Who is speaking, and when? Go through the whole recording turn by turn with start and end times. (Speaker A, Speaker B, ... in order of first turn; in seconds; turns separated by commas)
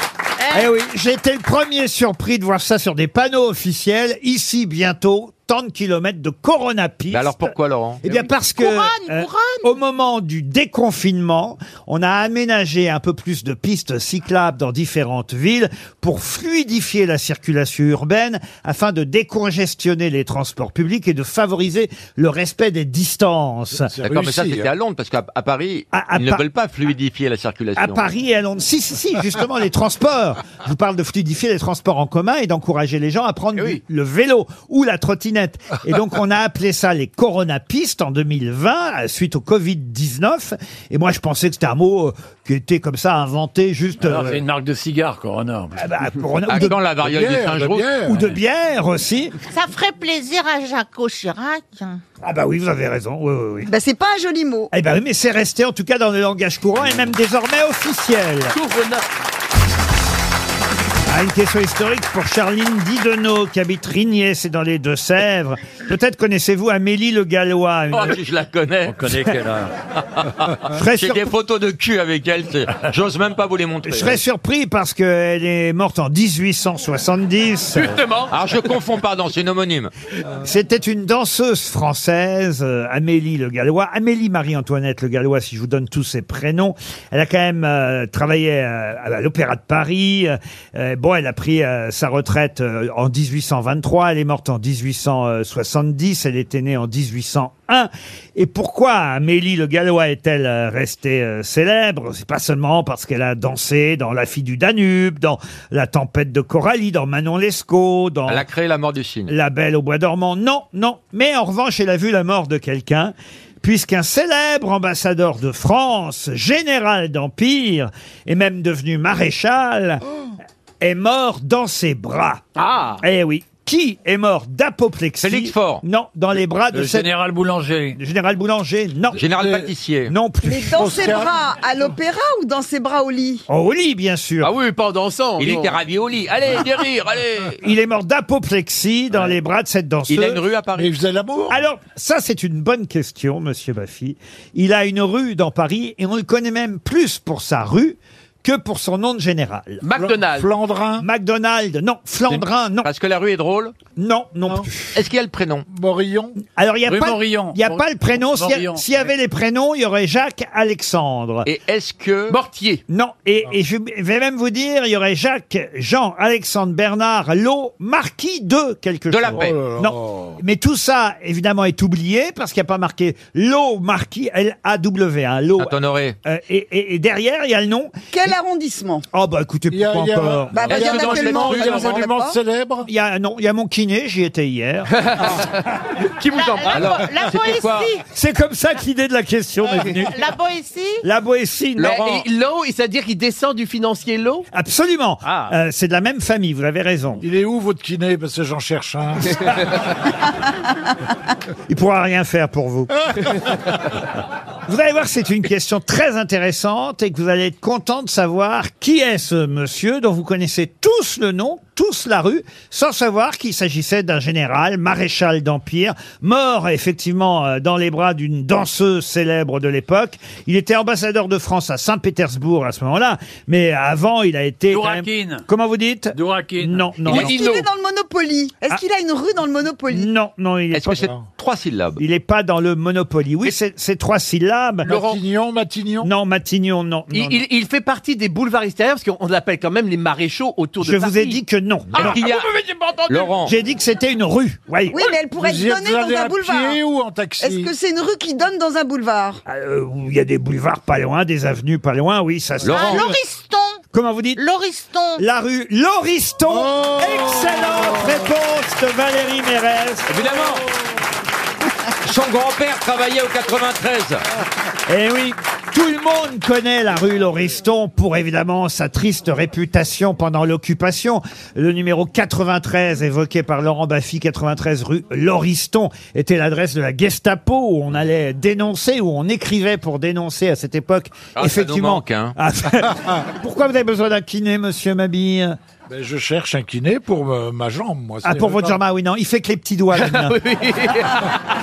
Speaker A: 0.4-0.7, Speaker B: 0.5-23.9, Speaker C: 7.1-8.1, Speaker A: 8.6-9.7, Speaker D: 23.9-24.7, Speaker C: 24.0-28.0, Speaker B: 25.9-26.4, Speaker B: 27.8-44.4, Speaker E: 33.5-33.8, Speaker F: 44.0-45.8, Speaker B: 45.8-46.8, Speaker C: 46.5-48.0, Speaker D: 46.9-48.2, Speaker B: 48.0-49.3, Speaker A: 49.5-52.0, Speaker B: 52.2-53.7, Speaker G: 53.7-54.7, Speaker B: 54.7-58.6, Speaker E: 58.6-58.9, Speaker B: 61.1-68.2, Speaker C: 67.9-69.0, Speaker F: 68.9-69.7, Speaker C: 70.1-74.2, Speaker B: 70.7-71.3, Speaker B: 73.9-77.9, Speaker E: 77.7-78.3, Speaker C: 78.3-79.9, Speaker B: 80.4-108.4, Speaker C: 108.3-109.3, Speaker B: 109.3-120.0, Speaker B: 120.8-122.4, Speaker E: 122.5-123.0, Speaker B: 123.0-127.1, Speaker C: 125.2-125.8, Speaker F: 126.7-128.0, Speaker B: 128.0-129.2, Speaker C: 129.1-130.1, Speaker D: 129.4-129.7, Speaker B: 130.1-130.9, Speaker G: 130.4-133.4, Speaker D: 130.6-131.4, Speaker B: 133.5-134.5, Speaker E: 134.4-135.8, Speaker C: 135.4-137.6, Speaker B: 137.6-140.4, Speaker C: 140.1-140.9, Speaker D: 140.8-141.6, Speaker B: 141.5-149.8, Speaker E: 149.8-150.5, Speaker D: 150.0-151.1, Speaker B: 151.0-152.9, Speaker C: 152.3-153.7, Speaker B: 153.9-154.9, Speaker C: 154.9-155.7, Speaker D: 155.7-156.4, Speaker B: 156.5-161.5, Speaker F: 156.8-159.1, Speaker C: 161.4-162.4, Speaker E: 162.3-162.8, Speaker B: 162.9-177.9, Speaker C: 169.1-169.6, Speaker D: 169.3-170.4, Speaker C: 175.6-176.2, Speaker G: 178.1-179.1, Speaker B: 179.1-180.7, Speaker D: 179.7-182.9, Speaker G: 180.5-182.4, Speaker C: 180.7-182.1, Speaker B: 182.8-184.9, Speaker E: 185.0-185.5, Speaker E: 186.1-187.0, Speaker A: 186.3-188.0, Speaker C: 186.7-187.9, Speaker B: 188.1-190.2, Speaker A: 190.0-191.0, Speaker B: 191.0-192.2, Speaker E: 191.8-194.4, Speaker B: 194.5-197.2, Speaker E: 195.2-195.5, Speaker D: 197.2-199.4, Speaker B: 201.7-202.9, Speaker B: 204.7-227.4, Speaker F: 224.7-225.4, Speaker F: 226.1-226.9, Speaker E: 227.1-227.6, Speaker G: 227.1-230.1, Speaker B: 229.9-231.1, Speaker C: 230.7-232.0, Speaker B: 232.0-235.0, Speaker D: 234.8-236.1, Speaker B: 236.0-237.4, Speaker E: 237.1-241.4, Speaker B: 240.8-242.2, Speaker C: 241.9-242.5, Speaker E: 242.0-243.2, Speaker C: 243.1-243.5, Speaker B: 243.4-245.0, Speaker G: 244.9-246.8, Speaker D: 245.3-247.7, Speaker G: 247.4-249.4, Speaker B: 249.4-253.2, Speaker C: 252.7-253.0, Speaker A: 252.7-253.8, Speaker B: 253.9-254.4, Speaker A: 254.3-255.2, Speaker B: 255.2-260.1, Speaker C: 260.1-260.7, Speaker C: 262.0-264.2, Speaker B: 264.9-285.6, Speaker C: 281.3-282.3, Speaker D: 285.9-288.8, Speaker B: 288.2-290.4, Speaker E: 289.9-291.3